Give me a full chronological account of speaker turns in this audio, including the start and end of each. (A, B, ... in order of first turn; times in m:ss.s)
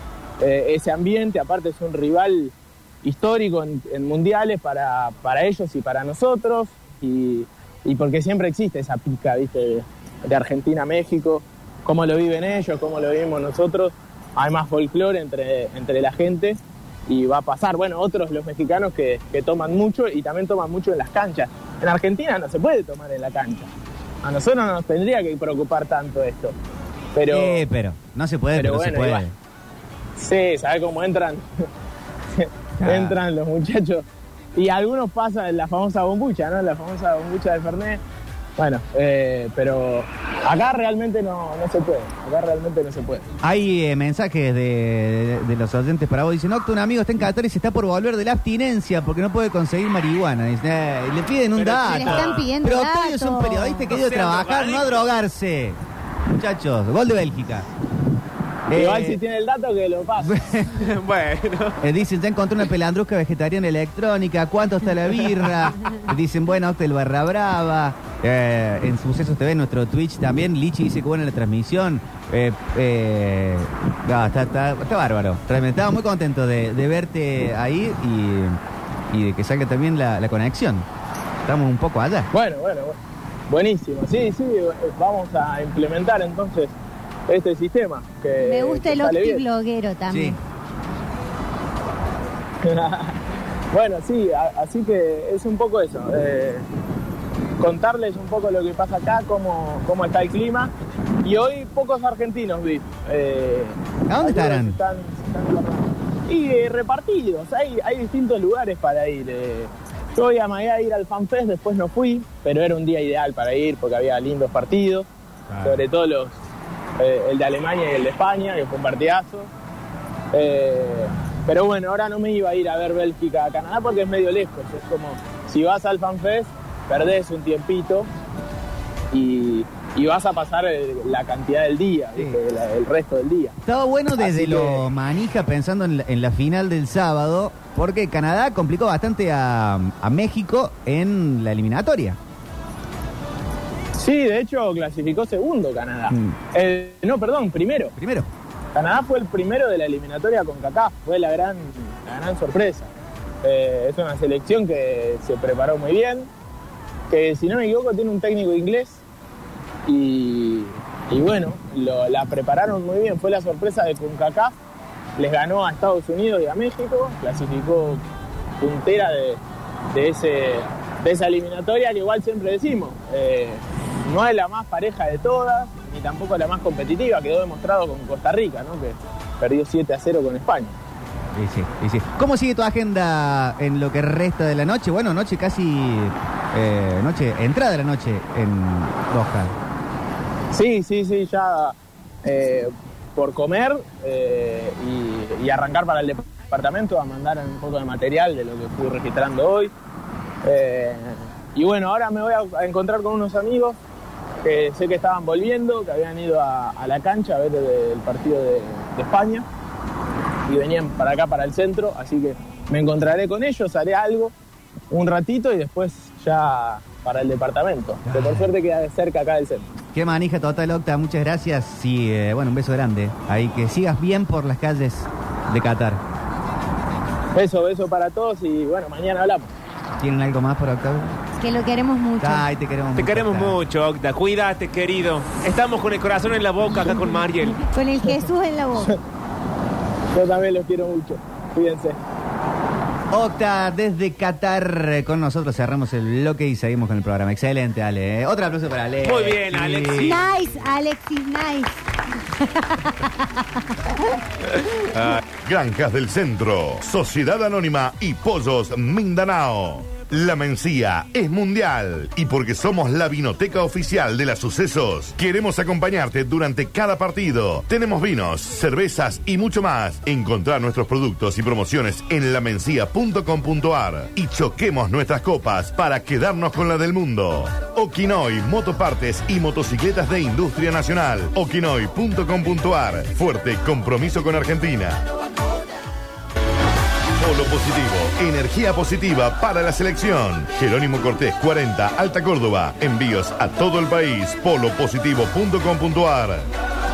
0:00.4-0:23.7 A
0:24.2-0:26.6 A
0:27.1-0:27.6 A
0:27.3-0:29.4 B
0:28.6-0:29.2 A
0:30.2-0:31.7 A
0:32.3-0:38.0 A
0:32.8-0:33.2 B
0:38.6-0:43.3 A
0:43.4-0:55.8 B
0:51.6-0:52.5 C
0:51.8-0:53.9 D
0:53.9-0:55.0 C
0:56.3-0:57.7 B
0:58.7-0:59.2 B
0:58.7-1:00.4 A
1:00.2-1:00.9 B
1:00.7-1:01.8 C
1:01.8-1:18.6 B
1:19.1-1:20.9 B
1:21.4-1:22.3 B
1:22.3-1:23.0 A
1:23.5-1:26.7 A
1:27.3-1:29.4 A
1:28.4-1:30.4 D
1:30.1-1:30.4 B
1:32.6-1:33.2 A
1:33.7-1:36.6 A
1:37.6-1:40.7 A
1:41.2-1:55.1 A
1:44.1-1:44.8 B
1:55.5-1:55.8 B
1:55.6-1:56.4 A
1:57.0-1:59.5 A
2:00.3-2:08.1 A
2:09.1-2:13.6 A
2:13.6-2:22.2 B
2:14.2-2:14.9 A
2:24.0-2:27.9 A
2:26.1-2:26.4 B
2:28.0-2:28.3 B
2:28.7-2:32.9 A
2:33.4-2:36.3 A
2:37.1-2:39.0 A
2:39.9-2:44.5 A
2:45.2-2:48.0 A
2:48.6-3:00.8 A
3:01.3-3:09.5 B
3:10.5-3:19.7 A
3:20.4-3:23.8 A
3:24.4-3:29.4 A
3:30.5-3:34.3 A
3:34.9-3:39.7 A
3:38.1-3:38.5 B
3:39.9-3:46.0 B
3:47.3-3:49.5 A
3:50.0-3:51.2 B
3:51.4-3:52.4 D
3:52.2-3:53.6 B
3:53.0-3:57.6 C
3:57.6-3:59.0 D
4:00.1-4:02.0 A
4:03.1-4:10.6 B
4:09.0-4:10.2 C
4:10.0-4:14.1 D
4:14.9-4:15.2 C
4:15.4-4:45.0 E
4:47.2-4:56.5 E